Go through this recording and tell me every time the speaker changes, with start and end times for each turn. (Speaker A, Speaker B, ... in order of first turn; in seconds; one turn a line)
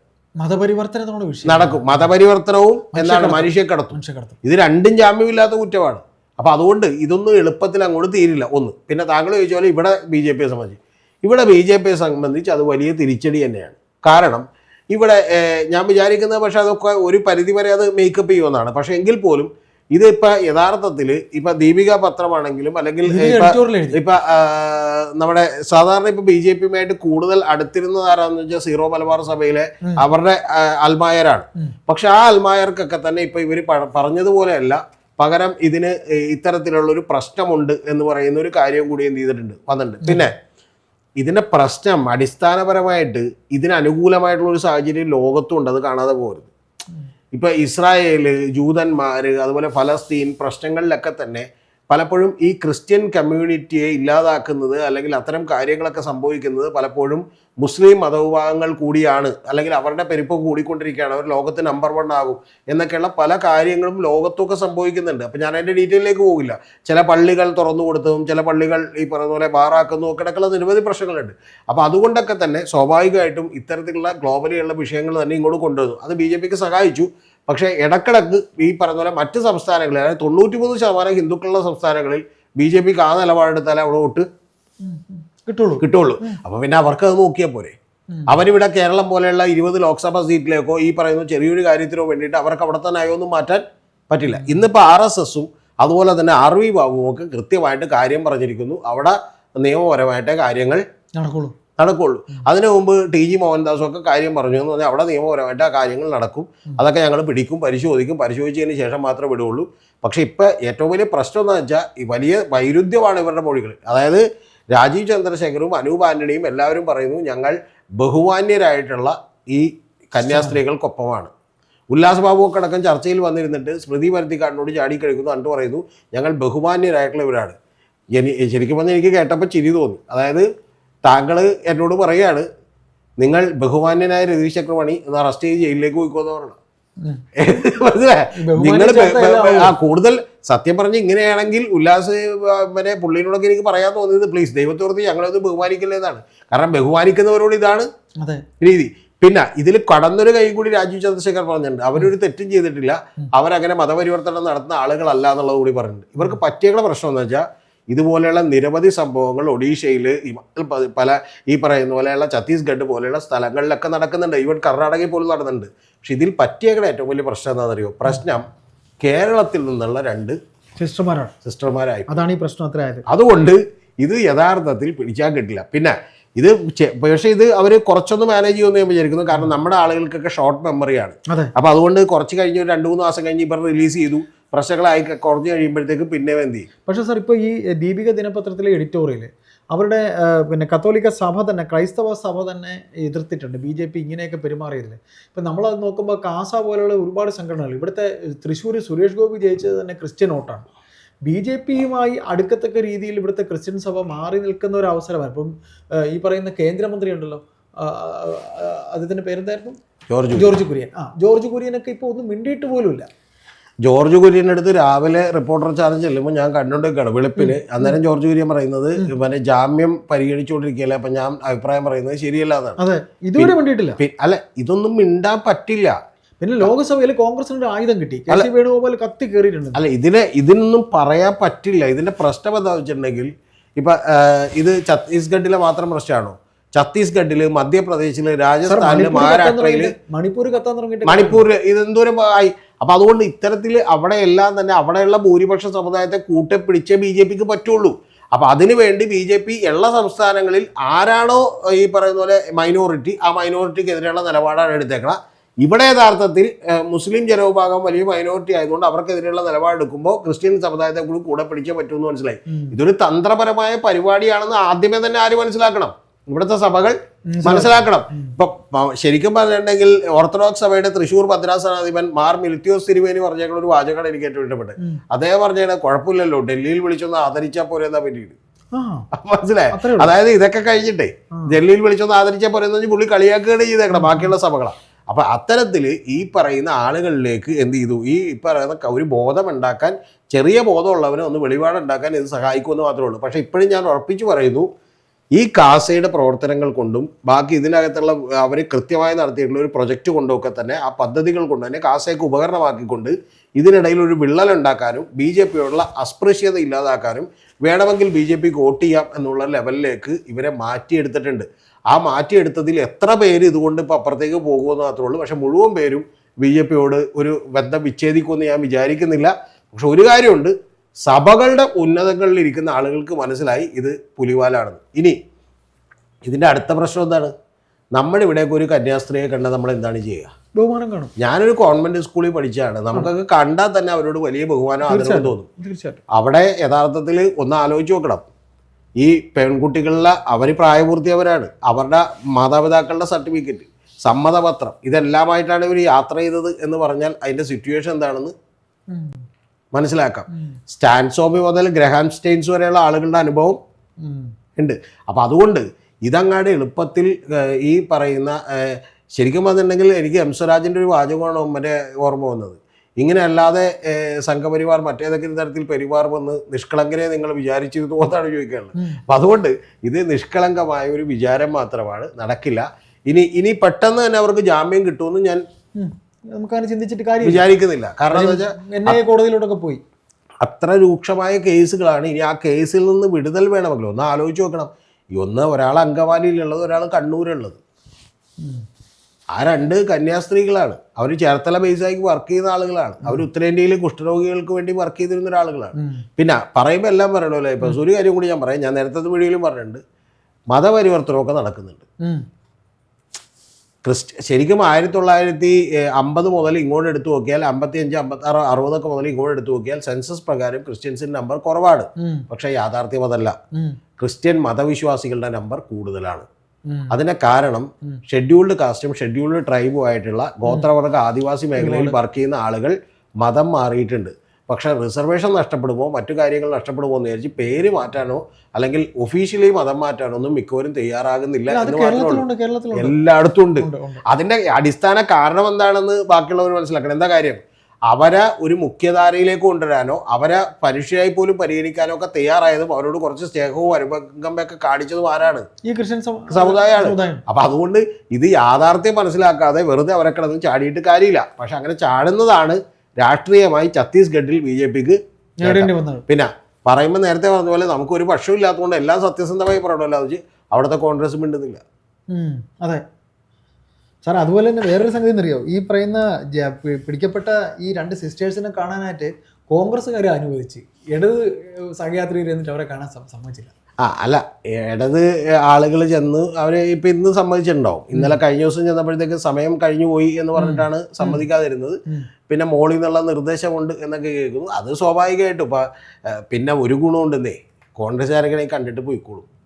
Speaker A: 0.4-2.1
Speaker B: 1.4-40.3
Speaker A: 2.9-4.4
Speaker A: 23.1-24.0
Speaker A: 40.0-40.3
Speaker B: 41.2-46.5
Speaker B: 47.3-84.2
Speaker A: 84.8-86.4
Speaker B: 85.8-87.7
Speaker B: 88.3-100.8
Speaker A: 94.3-94.6
Speaker A: 101.2-101.5
Speaker B: 101.8-121.3
Speaker A: 120.2-120.6
Speaker B: 121.9-127.5
Speaker B: 128.1-130.4
Speaker B: 131.0-132.5
Speaker B: 133.2-136.6
Speaker B: 137.4-147.9
Speaker A: 138.3-139.7
Speaker B: 148.6-168.4
Speaker B: 169.0-170.4
Speaker A: 170.8-171.3
Speaker B: 171.4-172.2
Speaker A: 172.1-173.0
Speaker B: 173.1-186.7
Speaker A: 186.8-200.7
Speaker A: 201.2-209.8
Speaker B: 210.1-210.6
Speaker A: 210.3-213.1
Speaker B: 213.8-222.8
Speaker A: 217.3-218.0
Speaker A: 222.8-224.0
Speaker B: 223.3-226.0
Speaker A: 226.4-229.8
Speaker B: 229.7-239.9
Speaker A: 238.7-241.4
Speaker B: 241.1-278.4
Speaker A: 262.5-262.8
Speaker A: 267.3-268.3
Speaker A: 278.7-279.1
Speaker B: 279.1-294.7
Speaker A: 279.7-280.1
Speaker A: 283.9-284.3
Speaker B: 295.4-320.5
Speaker B: 321.1-325.2
Speaker B: 326.2-327.3
Speaker B: 327.9-330.3
Speaker A: 330.5-331.1
Speaker B: 331.2-335.4
Speaker A: 334.9-336.0
Speaker B: 336.1-338.2
Speaker B: 339.0-348.3
Speaker A: 348.9-349.2
Speaker B: 349.7-353.6
Speaker A: 350.3-350.6
Speaker A: 354.0-354.3
Speaker B: 354.6-375.4
Speaker A: 375.8-377.4
Speaker B: 377.2-379.0
Speaker A: 378.1-379.8
Speaker B: 380.4-387.6
Speaker B: 389.4-399.8
Speaker A: 395.7-396.0
Speaker B: 400.5-401.8
Speaker B: 403.8-413.4
Speaker A: 412.0-412.2
Speaker B: 414.0-416.3
Speaker A: 416.7-417.0
Speaker B: 416.9-445.5
Speaker A: 421.6-421.9
Speaker A: 431.5-433.0
Speaker A: 433.6-434.0
Speaker A: 445.6-447.2
Speaker B: 446.3-461.6
Speaker A: 455.4-456.0
Speaker A: 462.1-462.8
Speaker A: 464.1-473.5
Speaker B: 473.8-489.2
Speaker A: 480.4-481.2